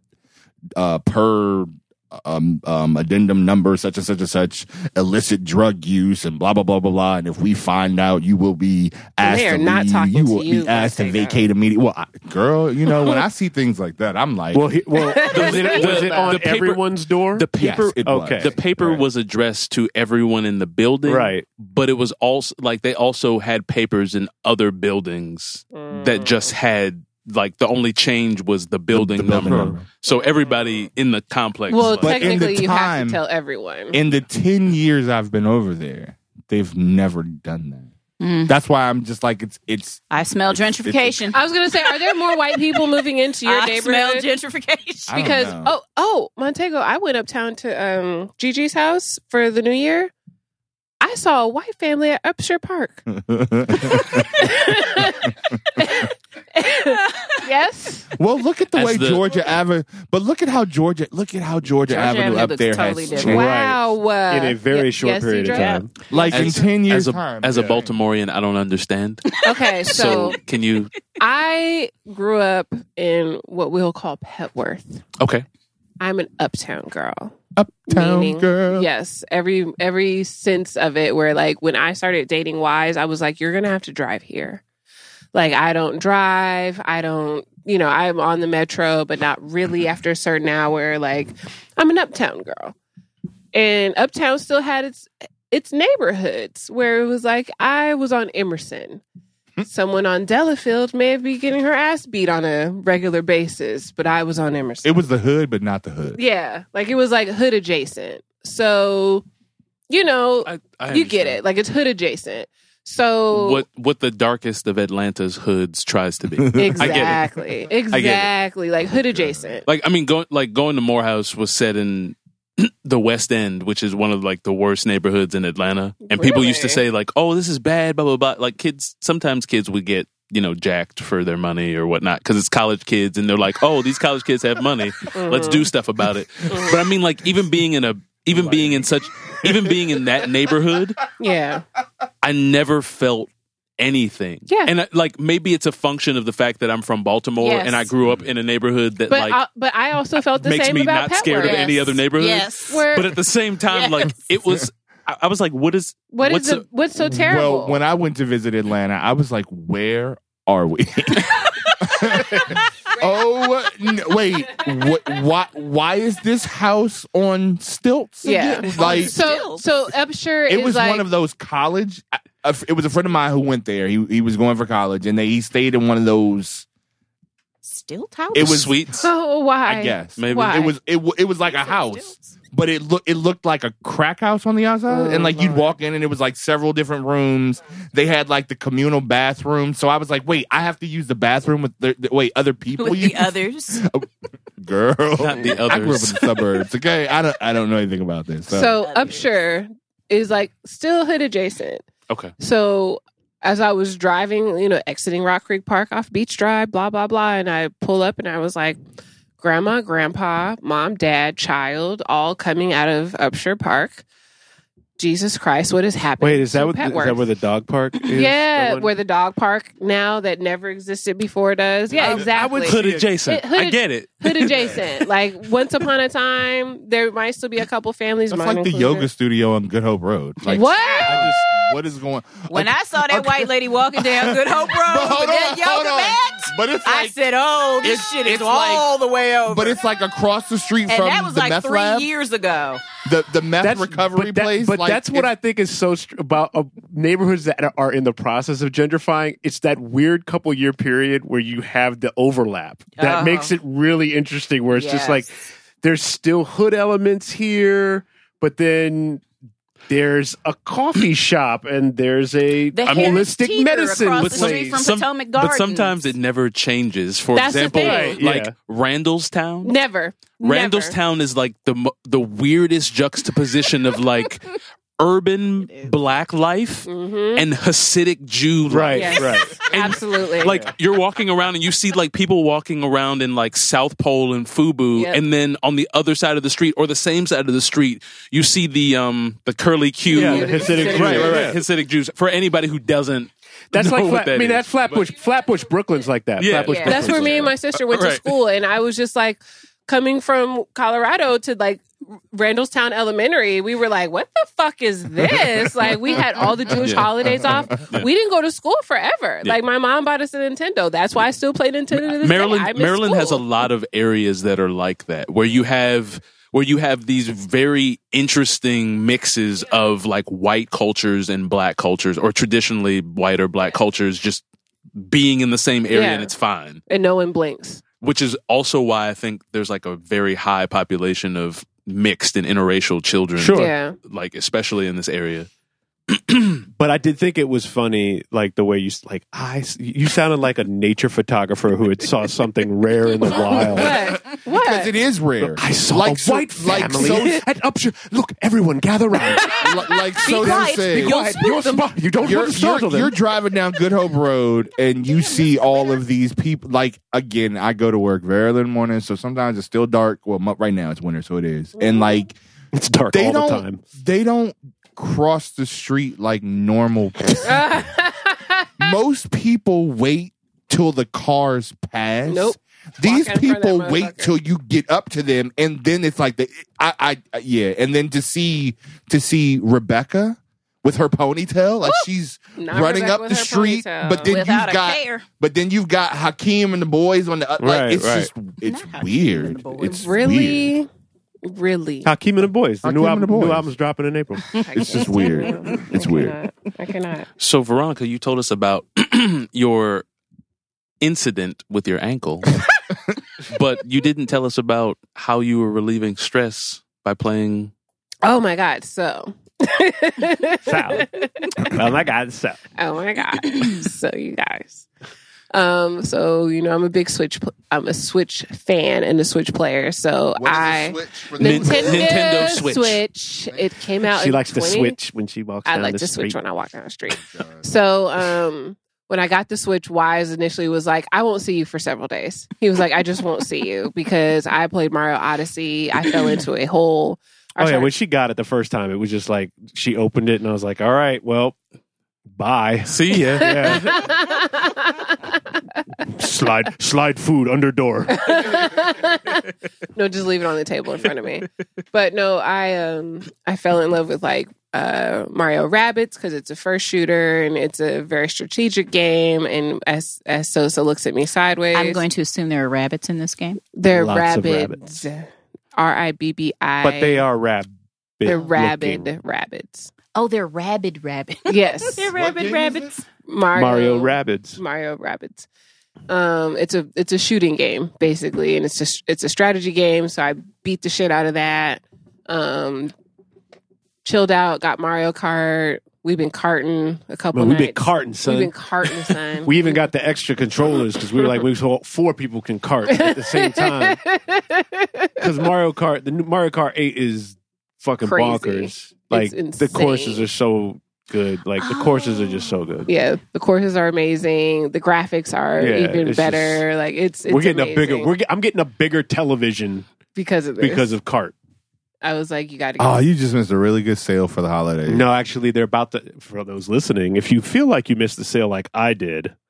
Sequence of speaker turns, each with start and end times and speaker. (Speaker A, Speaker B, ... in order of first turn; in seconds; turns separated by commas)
Speaker A: 0.8-14.7, Speaker B: 9.2-11.5, Speaker C: 14.5-17.5, Speaker B: 15.0-16.4, Speaker D: 15.2-32.3, Speaker A: 17.6-18.6, Speaker C: 18.0-19.0, Speaker C: 21.1-21.4, Speaker B: 25.7-26.5, Speaker A: 28.9-29.9, Speaker C: 29.4-29.8, Speaker B: 30.1-30.8, Speaker B: 31.7-34.0, Speaker A: 32.0-33.2, Speaker A: 33.9-37.9, Speaker E: 38.2-38.5, Speaker A: 38.5-41.3, Speaker E: 40.1-42.9, Speaker B: 41.3-44.3, Speaker E: 43.4-45.3, Speaker A: 45.1-45.7, Speaker B: 45.1-50.1, Speaker B: 51.0-53.0, Speaker A: 53.1-54.5, Speaker B: 53.8-58.1, Speaker E: 56.8-57.4, Speaker A: 58.1-63.5, Speaker D: 58.7-59.3, Speaker E: 61.9-63.5, Speaker C: 63.2-65.9, Speaker B: 63.2-66.3, Speaker E: 65.5-65.9, Speaker A: 66.1-68.0, Speaker D: 66.3-70.9, Speaker B: 69.4-70.4, Speaker B: 71.2-75.0, Speaker D: 75.2-75.5, Speaker B: 76.0-77.3, Speaker A: 77.6-78.9, Speaker B: 77.9-84.6, Speaker B: 85.3-92.8, Speaker B: 93.5-99.0, Speaker B: 99.6-105.0, Speaker A: 104.8-106.2, Speaker B: 106.2-109.2, Speaker B: 109.9-113.6, Speaker D: 110.4-111.4, Speaker D: 113.3-117.2, Speaker A: 116.4-117.2, Speaker B: 116.5-119.7, Speaker D: 117.9-118.3, Speaker A: 119.1-119.6, Speaker D: 119.7-141.0, Speaker B: 126.1-126.8, Speaker B: 135.1-135.7, Speaker B: 136.5-136.8, Speaker B: 141.2-141.7, Speaker D: 142.2-149.4, Speaker E: 147.4-147.9, Speaker B: 149.1-151.9, Speaker D: 150.3-156.7, Speaker E: 151.4-152.9, Speaker B: 152.7-153.2, Speaker E: 153.7-154.1, Speaker B: 156.1-157.8, Speaker A: 157.0-169.2, Speaker E: 168.2-169.7, Speaker B: 168.2-171.1, Speaker A: 170.5-176.7, Speaker E: 177.6-178.6, Speaker A: 178.3-178.9, Speaker D: 178.4-179.1, Speaker B: 179.0-180.7, Speaker A: 179.7-194.1, Speaker D: 180.2-180.7, Speaker E: 181.4-182.2, Speaker B: 184.9-185.6, Speaker E: 192.8-193.8, Speaker A: 194.6-198.7, Speaker D: 195.2-196.4, Speaker B: 198.5-201.8, Speaker E: 198.7-199.3, Speaker D: 202.1-202.3, Speaker B: 202.4-208.8, Speaker B: 209.4-214.0, Speaker B: 215.0-217.3, Speaker C: 216.2-218.9, Speaker B: 218.1-229.1, Speaker C: 221.9-223.1, Speaker D: 222.1-224.9, Speaker A: 228.3-237.2, Speaker E: 230.4-231.3, Speaker B: 230.5-231.3, Speaker E: 232.5-239.8, Speaker A: 237.8-238.9, Speaker A: 239.5-242.1, Speaker E: 240.9-242.9, Speaker A: 243.0-245.3, Speaker C: 243.6-259.2, Speaker E: 253.0-253.6, Speaker E: 254.7-255.3, Speaker C: 259.9-264.8, Speaker E: 262.7-266.1, Speaker D: 262.8-263.2, Speaker D: 264.1-269.8, Speaker B: 267.3-268.2, Speaker C: 267.6-268.5, Speaker B: 269.6-271.0, Speaker D: 270.4-295.1, Speaker B: 276.9-277.5, Speaker C: 278.7-279.6, Speaker B: 278.9-280.6, Speaker C: 280.4-280.7, Speaker B: 284.9-285.2, Speaker B: 290.1-291.5, Speaker C: 290.1-291.6, Speaker C: 293.7-297.5, Speaker D: 296.4-298.2, Speaker E: 296.6-297.2, Speaker B: 296.9-313.4, Speaker D: 306.7-307.1, Speaker A: 307.2-307.6, Speaker D: 312.0-324.4, Speaker D: 325.0-326.8, Speaker B: 325.9-326.3, Speaker B: 326.9-327.8, Speaker D: 328.0-335.5, Speaker C: 333.4-333.7, Speaker B: 333.5-334.0, Speaker D: 336.1-336.6, Speaker C: 336.8-344.1, Speaker A: 343.7-347.4, Speaker B: 343.7-344.9, Speaker C: 345.4-349.7, Speaker A: 349.6-351.2, Speaker E: 350.2-352.0, Speaker C: 350.3-353.1, Speaker A: 352.2-362.4, Speaker C: 362.7-363.8, Speaker A: 363.1-367.7, Speaker B: 367.4-368.9, Speaker A: 368.8-390.7, Speaker B: 372.3-374.3, Speaker B: 382.6-384.3, Speaker E: 384.3-385.2, Speaker C: 387.6-388.3, Speaker E: 388.6-390.2, Speaker B: 389.8-390.9, Speaker B: 391.4-392.1, Speaker C: 392.0-394.6, Speaker A: 392.8-393.7, Speaker B: 394.6-397.3, Speaker A: 394.7-396.4, Speaker D: 397.4-400.1, Speaker D: 401.0-402.6, Speaker D: 403.4-407.7, Speaker B: 408.2-411.5, Speaker C: 410.6-412.6, Speaker B: 412.8-414.9, Speaker B: 415.5-425.0, Speaker A: 420.4-422.6, Speaker D: 421.4-423.0, Speaker C: 424.0-426.4, Speaker B: 425.7-437.9, Speaker A: 427.2-427.6, Speaker C: 437.6-441.6, Speaker C: 442.3-444.1, Speaker D: 442.9-443.8, Speaker B: 443.3-445.2, Speaker C: 446.1-448.7, Speaker B: 448.2-449.4, Speaker B: 449.9-462.0, Speaker E: 461.7-463.6, Speaker B: 463.7-467.2, Speaker C: 463.9-465.0, Speaker C: 466.8-469.1, Speaker B: 468.2-469.9, Speaker E: 470.1-473.0, Speaker B: 471.5-472.1, Speaker A: 472.1-473.0, Speaker B: 473.2-475.5, Speaker C: 473.6-474.6, Speaker B: 476.1-482.9, Speaker B: 484.0-489.8, Speaker C: 487.3-494.0, Speaker B: 492.9-495.3, Speaker C: 495.2-502.9, Speaker B: 498.0-500.3, Speaker E: 501.7-502.5, Speaker B: 502.9-508.1, Speaker C: 505.6-506.6, Speaker C: 507.3-509.9, Speaker B: 510.1-511.0, Speaker C: 510.6-511.4, Speaker B: 512.0-513.1, Speaker A: 512.8-515.1, Speaker C: 514.9-519.4